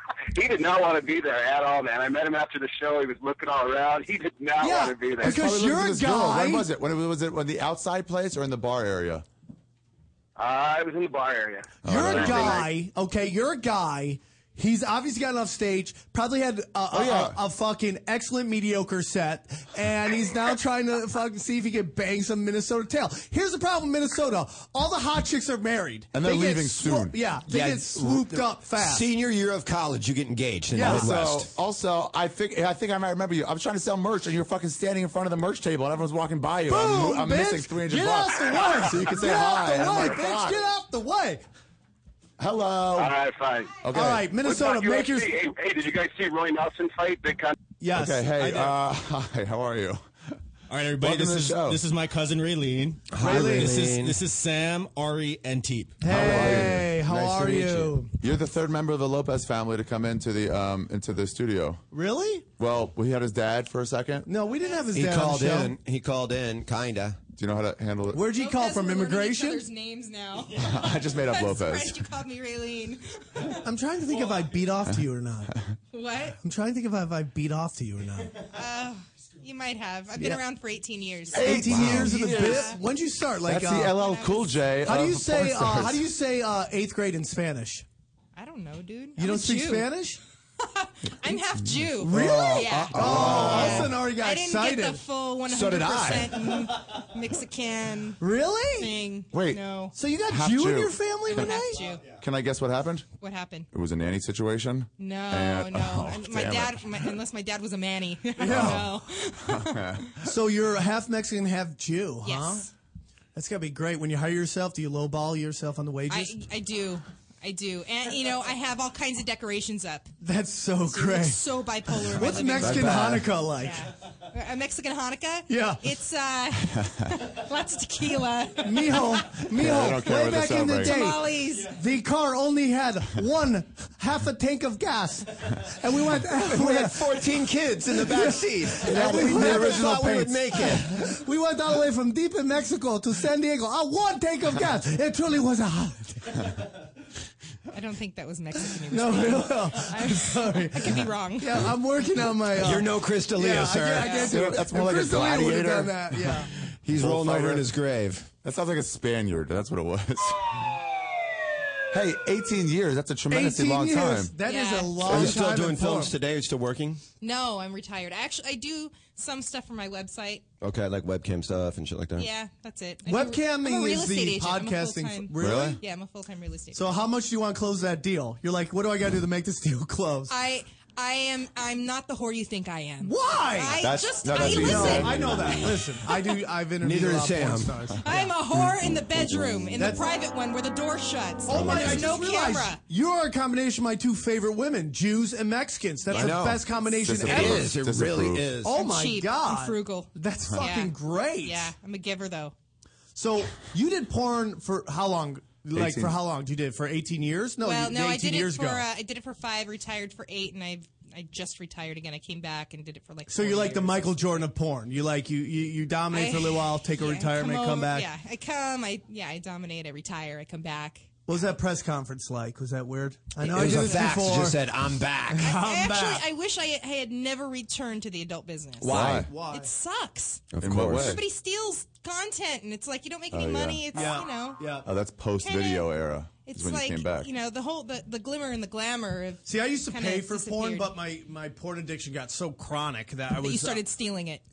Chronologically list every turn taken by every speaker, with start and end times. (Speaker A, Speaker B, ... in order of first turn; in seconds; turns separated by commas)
Speaker A: 0.3-5.4, Speaker B: 4.6-6.7, Speaker C: 5.2-9.2, Speaker A: 10.4-12.7, Speaker C: 11.8-12.7, Speaker B: 11.8-29.1, Speaker C: 16.9-17.4, Speaker C: 26.1-27.2, Speaker D: 27.5-31.5, Speaker B: 30.7-31.1, Speaker C: 30.8-40.6, Speaker B: 36.7-41.4, Speaker C: 42.4-43.1, Speaker A: 43.0-43.8, Speaker C: 43.8-44.3, Speaker B: 43.9-45.3, Speaker A: 44.4-47.5, Speaker B: 47.8-48.7, Speaker C: 47.9-50.0, Speaker E: 50.7-56.0, Speaker C: 51.0-51.8, Speaker D: 53.1-54.2, Speaker B: 53.2-53.9, Speaker B: 56.0-58.1, Speaker C: 56.0-61.8, Speaker D: 56.1-56.9, Speaker B: 61.9-62.5, Speaker C: 62.6-64.3, Speaker B: 64.3-65.8, Speaker D: 64.9-67.2, Speaker C: 67.4-68.3, Speaker B: 68.1-69.7, Speaker F: 68.3-73.7, Speaker C: 70.5-72.0, Speaker B: 73.6-75.6, Speaker F: 75.9-76.4, Speaker B: 76.4-78.4, Speaker F: 78.5-82.8, Speaker C: 81.3-82.8, Speaker B: 81.3-83.9, Speaker C: 83.4-86.0, Speaker F: 83.9-84.7, Speaker B: 84.8-87.8, Speaker F: 88.3-89.9, Speaker B: 89.2-90.2, Speaker F: 90.6-98.2, Speaker C: 91.3-94.0, Speaker B: 92.0-96.6, Speaker B: 98.2-99.0, Speaker F: 98.8-99.9, Speaker C: 99.3-99.6, Speaker B: 100.0-101.8, Speaker C: 100.3-101.6, Speaker F: 101.3-102.0, Speaker C: 102.2-103.1, Speaker F: 103.2-103.7, Speaker C: 103.7-107.1, Speaker F: 105.0-110.1, Speaker B: 108.4-108.9, Speaker C: 108.4-108.9, Speaker C: 109.5-110.1, Speaker B: 110.2-112.7, Speaker F: 112.2-112.7, Speaker B: 113.3-116.4, Speaker F: 116.1-120.1, Speaker B: 120.2-123.9, Speaker F: 120.8-129.5, Speaker C: 122.6-123.3, Speaker B: 125.5-125.8, Speaker B: 128.6-146.6, Speaker C: 129.6-131.2, Speaker F: 130.1-131.8, Speaker D: 136.4-141.0, Speaker C: 138.8-140.3, Speaker F: 147.7-151.8, Speaker B: 148.7-156.5, Speaker D: 152.6-154.4, Speaker F: 154.0-154.3, Speaker C: 154.2-157.7, Speaker D: 156.7-158.3, Speaker C: 158.4-160.6, Speaker C: 161.9-164.3, Speaker B: 163.3-166.1, Speaker F: 164.4-165.1, Speaker D: 165.0-167.0, Speaker F: 167.2-170.4, Speaker D: 170.6-172.3, Speaker F: 172.2-176.8, Speaker B: 173.1-175.8, Speaker C: 175.4-175.8, Speaker B: 176.7-180.3, Speaker F: 180.3-186.4, Speaker B: 183.0-188.3, Speaker C: 183.8-185.8, Speaker D: 186.8-187.7, Speaker F: 188.0-192.8, Speaker B: 189.8-190.1, Speaker B: 191.5-197.6, Speaker D: 191.6-192.1, Speaker D: 196.1-196.6, Speaker C: 197.0-198.5, Speaker D: 197.2-198.7, Speaker B: 198.6-201.7, Speaker F: 198.7-202.6, Speaker B: 203.2-208.9, Speaker C: 205.7-206.2, Speaker F: 207.6-214.4, Speaker B: 213.3-218.1, Speaker F: 216.1-221.1, Speaker B: 221.3-224.7, Speaker D: 223.4-225.5, Speaker F: 223.5-224.2, Speaker B: 225.3-226.2, Speaker F: 225.4-234.8, Speaker D: 228.8-229.3, Speaker C: 228.9-229.3, Speaker B: 229.1-229.7, Speaker D: 230.5-231.2, Speaker C: 230.6-231.2, Speaker C: 233.3-233.9, Speaker B: 233.9-234.9, Speaker C: 234.8-237.3, Speaker F: 235.4-235.9, Speaker F: 236.4-240.9, Speaker B: 239.5-243.8, Speaker F: 243.3-244.4